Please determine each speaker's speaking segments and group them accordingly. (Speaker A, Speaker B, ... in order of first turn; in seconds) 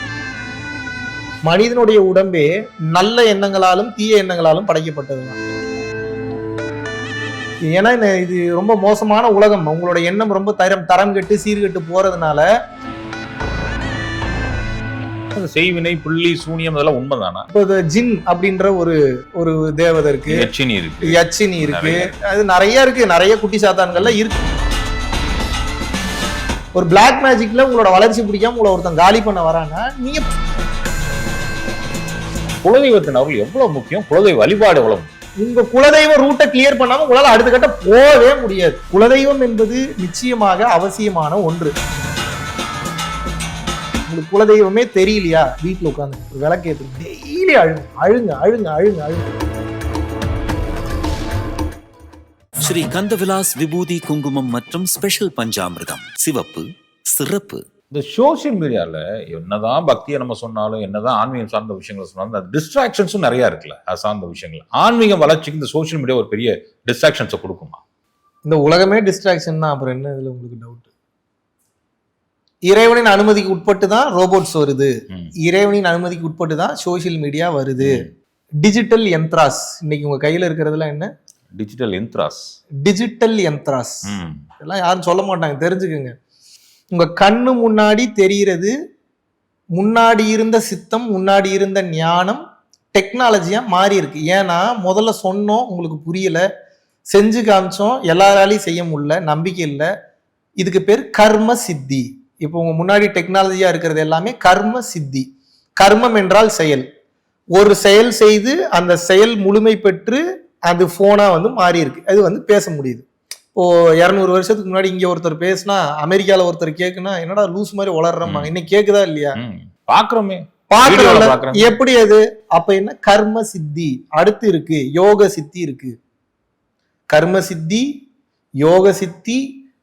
Speaker A: 1.4-5.4, 7.7-12.5, 17.5-20.5, 21.0-24.4, 26.7-30.2, 35.4-41.7, 44.1-49.3, 68.4-70.9, 72.7-74.9, 75.4-78.0, 78.6-81.1, 82.8-84.0, 84.6-86.1, 86.9-88.7, 89.8-92.4, 92.9-96.4, 97.1-99.9, 100.6-105.2, 105.8-106.8, 107.5-119.4, 120.7-125.9, 127.1-127.8, 128.6-129.4
Speaker B: 15.3-17.5, 20.3-22.1, 32.6-35.1, 57.9-67.8, 77.8-78.1, 81.5-82.5, 84.1-84.4, 118.2-118.5, 119.4-121.8
Speaker C: 52.6-57.7